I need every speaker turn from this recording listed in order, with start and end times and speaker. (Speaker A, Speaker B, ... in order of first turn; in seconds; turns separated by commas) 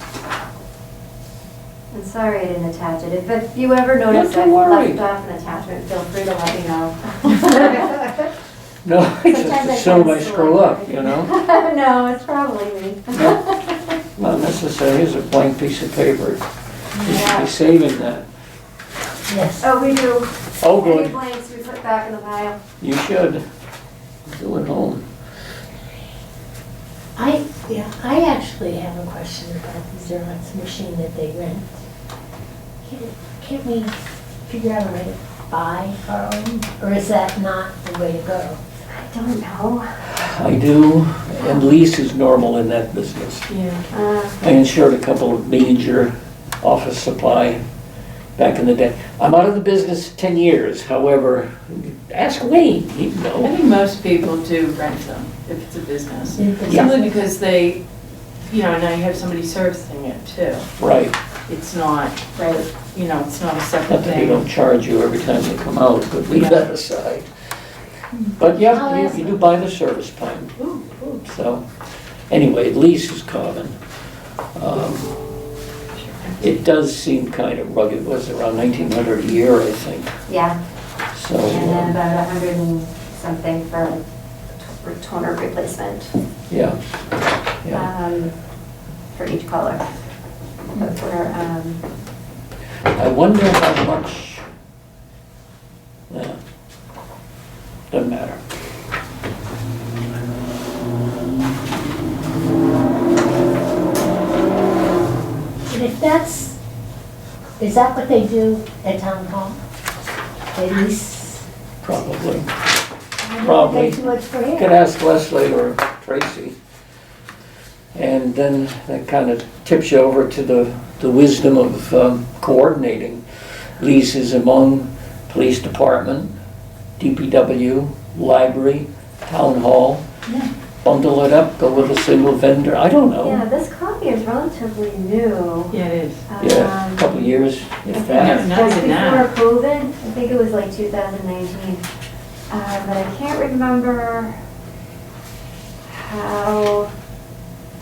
Speaker A: 1.9-8.3, Speaker B: 4.1-5.0, Speaker B: 8.8-11.3, Speaker A: 9.2-13.9, Speaker B: 13.1-13.4, Speaker B: 14.2-16.4, Speaker B: 17.0-18.3, Speaker A: 17.0-17.5, Speaker C: 19.3-19.7, Speaker A: 19.6-22.6, Speaker B: 20.6-21.1, Speaker B: 22.8-23.4, Speaker B: 24.3-25.1, Speaker C: 27.2-31.8, Speaker C: 32.8-38.6, Speaker A: 38.9-40.0, Speaker B: 40.1-43.5, Speaker D: 43.5-43.8, Speaker A: 43.9-44.4, Speaker B: 44.4-47.6, Speaker B: 48.4-53.5, Speaker D: 53.4-57.8, Speaker C: 56.4-57.2, Speaker D: 58.5-60.7, Speaker B: 60.8-61.1, Speaker D: 61.5-62.2, Speaker A: 62.4-62.7, Speaker D: 62.9-64.5, Speaker B: 63.9-67.3, Speaker D: 66.3-66.7, Speaker B: 68.4-70.5, Speaker C: 68.6-69.3, Speaker D: 70.6-71.2, Speaker B: 71.2-71.7, Speaker B: 72.3-73.8, Speaker B: 74.6-75.1, Speaker D: 76.0-76.5, Speaker B: 76.4-80.1, Speaker A: 80.3-80.6, Speaker B: 81.1-82.0, Speaker A: 81.5-84.0, Speaker A: 84.6-86.1, Speaker B: 86.5-86.8, Speaker A: 87.7-88.3, Speaker A: 89.2-89.9, Speaker A: 90.8-91.8, Speaker B: 92.9-94.4, Speaker B: 96.1-96.4, Speaker B: 97.9-98.4, Speaker C: 105.7-106.6, Speaker C: 107.6-109.6, Speaker C: 110.5-111.5, Speaker B: 111.8-112.5, Speaker C: 113.2-114.8, Speaker B: 113.4-116.6, Speaker B: 117.9-123.2, Speaker B: 123.8-126.3, Speaker B: 127.0-130.0, Speaker B: 130.8-133.4, Speaker A: 133.2-135.8, Speaker D: 135.7-136.2, Speaker A: 136.3-137.3, Speaker B: 136.4-138.5, Speaker D: 137.9-139.3, Speaker A: 138.1-141.8, Speaker A: 142.5-144.4, Speaker A: 145.9-146.9